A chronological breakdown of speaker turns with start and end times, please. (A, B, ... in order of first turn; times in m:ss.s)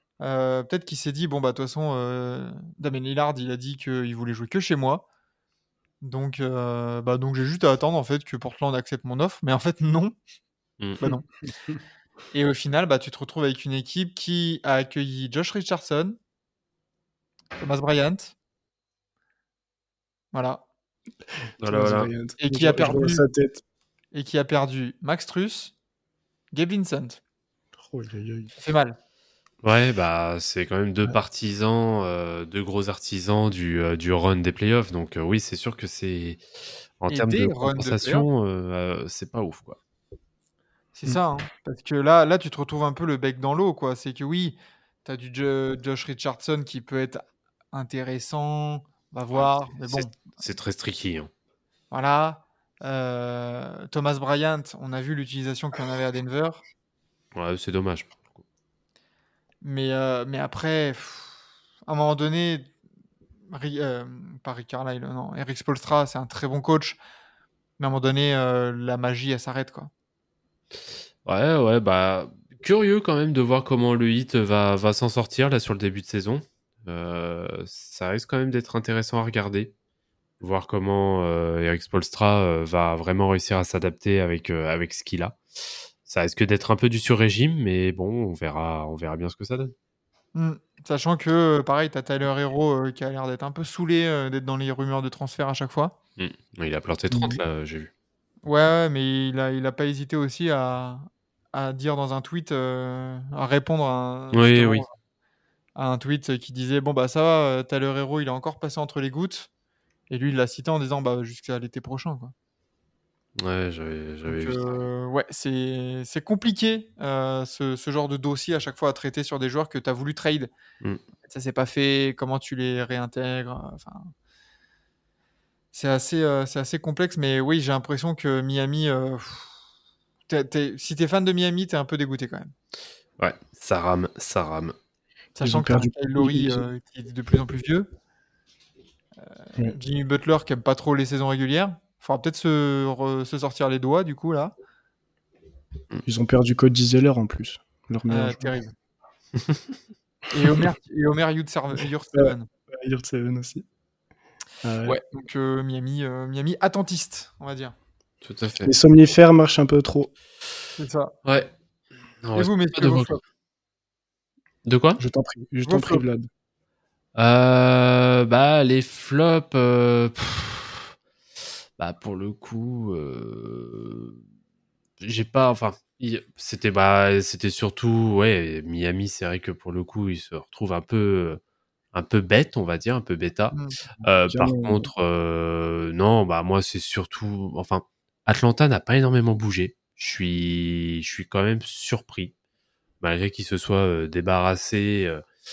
0:00.2-0:05.0 A
0:06.0-0:10.2 A
0:12.3-0:16.2 A
0:17.6-0:18.3 A
0:20.3-0:20.6 A
0:21.6-0:22.1 B
0:21.7-0:23.6 C
0:22.4-0:23.2 A
0:24.1-0:25.8 A
0:26.5-0:27.2 A
0:27.8-0:28.5 C
0:28.6-0:29.0 A
0:29.6-0:36.4 B
0:37.0-0:39.8 B
0:37.1-0:38.3 A
0:41.0-0:50.2 A
0:49.4-0:51.3 B
0:51.9-0:56.6 A
0:57.4-0:58.4 B
0:59.6-1:01.4 A
1:01.9-1:02.7 A
1:03.5-1:07.0 A
1:07.8-1:09.9 A
1:11.2-1:19.7 B
1:20.4-1:25.4 B
1:26.1-1:29.7 B
1:30.4-1:36.0 A
1:36.2-1:37.9 B
1:37.1-1:37.4 A
1:38.5-1:44.9 A
1:44.3-1:44.8 B
1:45.8-1:49.5 A
1:50.1-1:52.3 A
1:53.4-1:54.9 B
1:54.3-2:00.5 A
2:01.3-2:04.1 A
2:05.7-2:09.5 A
2:10.3-2:12.5 A
2:13.2-2:14.8 B
2:15.4-2:17.9 A
2:15.4-2:16.7 C
2:19.6-2:24.5 A
2:26.1-2:28.6 C
2:28.1-2:28.7 A
2:29.4-2:29.6 B
2:30.3-2:32.5 A
2:32.1-2:33.6 C
2:34.6-2:35.0 C
2:34.8-2:37.8 A
2:38.2-2:38.7 B
2:38.6-2:40.1 C
2:40.8-2:41.1 A
2:41.3-2:41.5 B
2:42.2-2:43.1 B
2:42.4-2:43.2 A
2:44.6-2:45.0 B
2:45.0-2:46.3 C
2:45.7-2:46.0 A
2:47.2-2:50.9 B
2:51.8-2:54.2 B
2:55.0-3:01.4 B
3:01.9-3:12.3 B
3:03.5-3:03.8 A
3:04.3-3:04.9 C
3:13.0-3:15.2 B